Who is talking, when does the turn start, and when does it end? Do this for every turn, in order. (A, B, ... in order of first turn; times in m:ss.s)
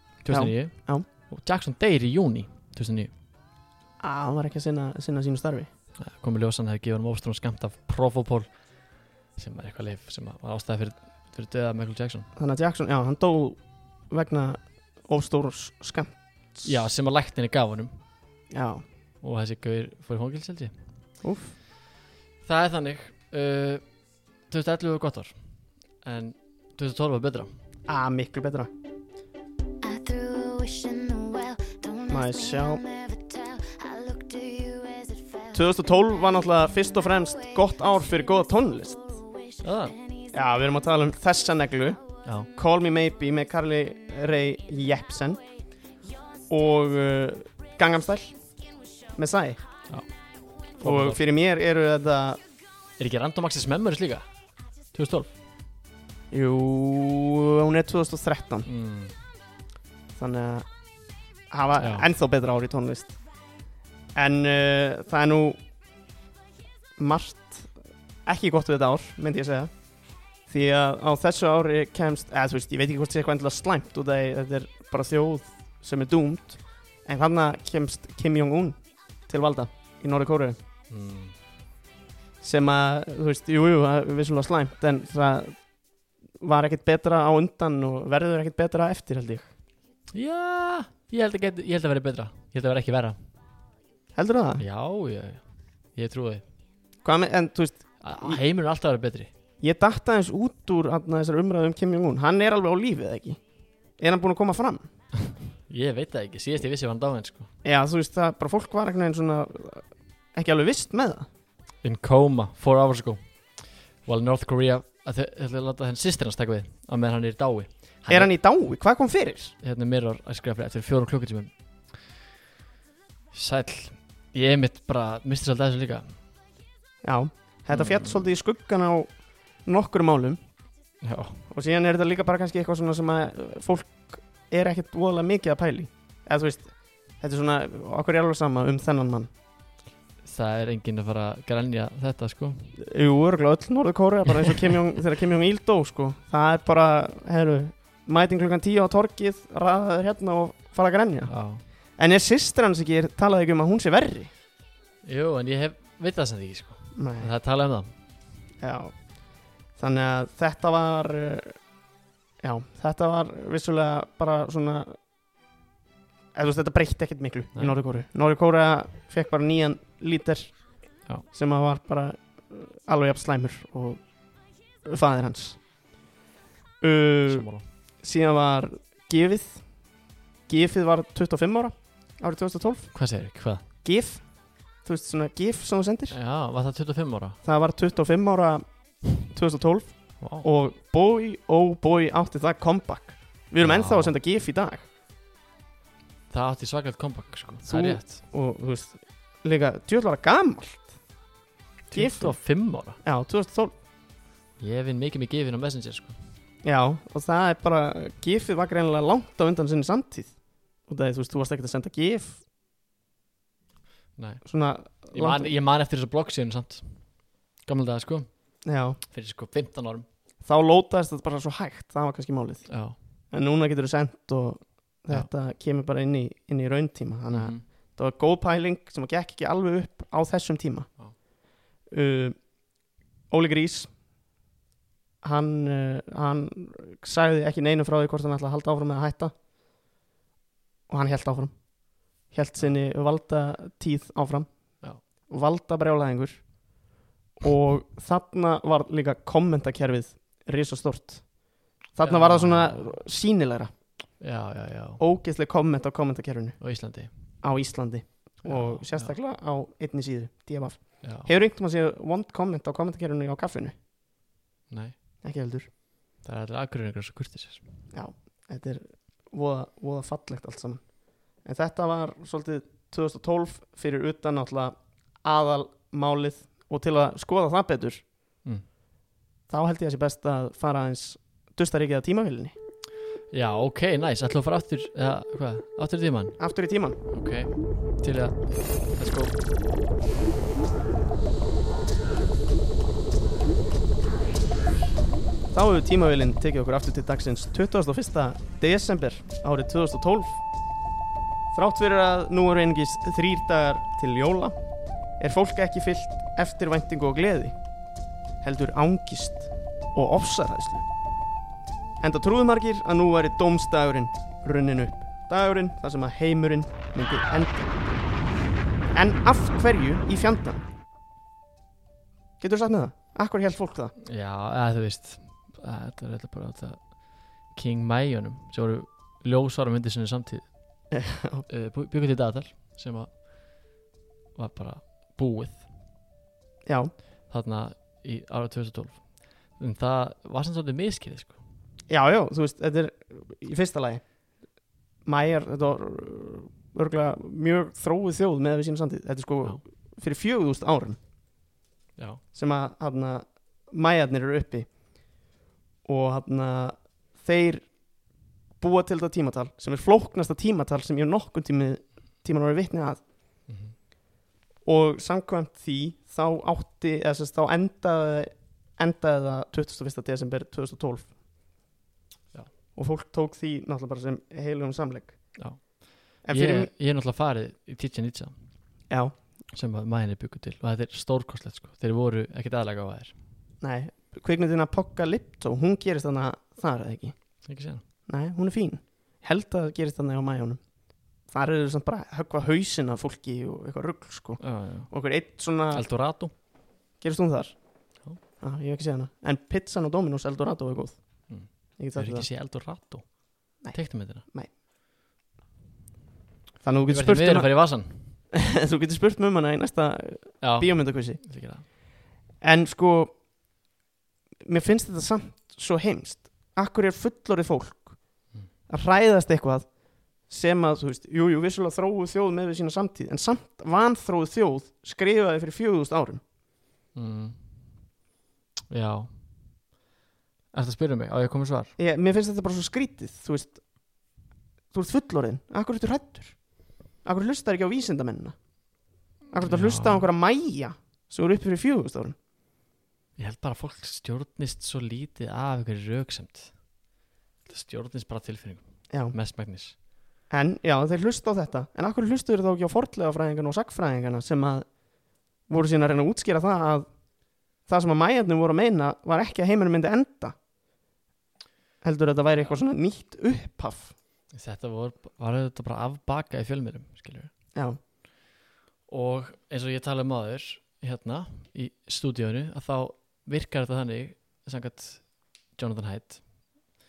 0:00.2-0:03.1 A
0:00.3-0:01.1 B
0:04.0-0:05.7 B
0:06.0-0:08.5 A
0:09.4-0:12.3 A
0:12.4-0:16.7 B
0:16.6-0:17.9 A
0:18.5-0:18.8 B
0:19.2-0:20.7 A
0:21.2-0:21.6 B
0:22.4-0:23.8 A
0:24.5-0:25.4 A
0:26.0-0:27.5 A
0:27.9-0:28.7 B
0:29.8-0:35.6 C
0:32.1-0:32.8 B
0:35.5-0:39.0 B
0:39.0-0:40.3 C
0:39.6-0:40.0 A
0:40.3-0:42.0 B
0:42.6-0:45.4 B
0:46.5-0:48.3 B
0:49.2-0:49.6 B
0:50.8-0:51.2 A
0:50.8-0:52.4 B
0:53.0-0:54.3 A
0:54.9-0:55.3 A
0:56.3-0:58.7 B
0:58.7-0:59.1 A
1:00.2-1:00.7 B
1:01.5-1:03.2 B
1:01.8-1:02.1 A
1:04.2-1:05.6 B
1:07.0-1:07.7 B
1:08.2-1:09.7 B
1:10.5-1:20.6 B
1:20.9-1:21.4 A
1:22.4-1:25.7 B
1:26.4-1:29.5 B
1:30.1-1:33.2 A
1:34.2-1:34.6 B
1:34.6-1:35.4 A
1:35.9-1:36.4 A
1:37.0-1:38.4 B
1:38.0-1:39.3 A
1:39.6-1:43.4 B
1:44.0-1:44.9 B
1:45.3-1:47.5 A
1:47.6-1:51.3 B
1:51.8-1:58.3 A
1:58.1-1:59.6 B
1:59.6-2:01.5 A
2:03.3-2:06.1 A
2:07.0-2:10.4 B
2:07.7-2:08.2 A
2:11.0-2:11.4 A
2:11.5-2:19.3 B
2:20.2-2:22.7 A
2:22.8-2:31.3 B
2:24.4-2:24.7 A
2:31.3-2:31.6 A
2:32.0-2:34.3 B
2:35.0-2:37.9 A
2:37.0-2:37.3 B
2:38.6-2:39.0 B
2:39.8-2:41.6 B
2:42.4-2:45.0 B
2:46.3-2:54.2 B
2:54.8-2:55.6 B
2:56.8-2:57.5 B
2:57.3-2:57.6 A
2:58.0-2:59.9 B
3:00.5-3:03.0 B
3:02.9-3:03.6 A
3:03.8-3:06.2 B
3:06.1-3:07.4 A
3:07.4-3:14.9 B
3:10.2-3:10.5 A
3:13.6-3:14.2 A
3:16.3-3:18.2 A
3:17.7-3:21.0 B
3:21.9-3:23.0 A
3:21.9-3:23.7 B
3:24.6-3:26.2 A
3:26.6-3:32.4 B
3:34.2-3:38.5 A
3:34.4-3:35.5 B
3:38.6-3:39.0 B
3:39.1-3:40.1 A
3:40.4-3:42.7 B
3:42.7-3:43.0 A
3:43.3-3:50.9 B
3:47.3-3:47.6 A
3:51.9-3:52.5 B
3:53.3-3:53.9 B
3:55.2-3:59.3 B
4:00.9-4:06.7 B
4:07.4-4:13.7 B
4:12.0-4:13.0 A
4:14.2-4:15.0 A
4:15.0-4:16.6 B
4:16.6-4:17.1 A
4:17.4-4:23.8 B
4:18.4-4:19.2 A
4:21.0-4:21.3 A
4:24.7-4:25.0 A
4:25.2-4:25.7 B
4:26.2-4:27.6 A
4:27.9-4:38.1 B
4:39.5-4:42.6 B
4:43.3-4:46.4 A
4:46.4-4:47.0 B
4:47.1-4:49.4 A
4:55.5-5:00.4 B
5:01.5-5:04.6 B
5:05.2-5:07.5 B
5:08.4-5:10.8 B
5:12.0-5:17.7 B
5:18.9-5:20.6 B
5:22.4-5:23.9 B
5:24.0-5:30.9 A
5:30.9-5:31.5 B
5:31.5-5:33.8 A
5:34.4-5:35.6 A
5:36.7-5:36.9 B
5:37.3-5:41.4 A
5:41.9-5:44.0 B
5:45.0-5:51.0 B
5:52.0-5:52.2 A
5:52.3-5:54.7 B
5:55.8-5:58.0 B
5:58.6-6:03.0 B
6:03.5-6:03.8 A
6:04.6-6:11.2 B
6:12.8-6:15.4 B
6:15.4-6:18.4 A
6:16.2-6:16.7 B
6:19.5-6:23.1 A
6:23.6-6:27.2 B
6:27.4-6:27.8 A
6:28.1-6:35.9 B
6:34.4-6:34.9 A
6:35.7-6:36.3 A
6:37.0-6:42.3 B
6:41.3-6:44.2 A
6:43.6-6:44.5 B
6:46.6-6:47.7 B
6:46.9-6:48.2 A
6:48.3-6:51.8 B
6:50.4-6:51.6 A
6:52.4-6:53.2 B
6:54.4-7:06.2 B
7:07.0-7:07.8 A
7:08.7-7:09.6 A
7:10.5-7:11.7 A
7:11.8-7:14.2 B
7:14.7-7:18.4 B
7:19.3-7:22.2 B
7:19.4-7:20.1 A
7:23.2-7:26.6 A
7:27.4-7:29.8 A
7:30.3-7:40.4 B
7:41.8-7:44.0 B
7:44.3-7:47.3 A
7:48.9-7:56.7 A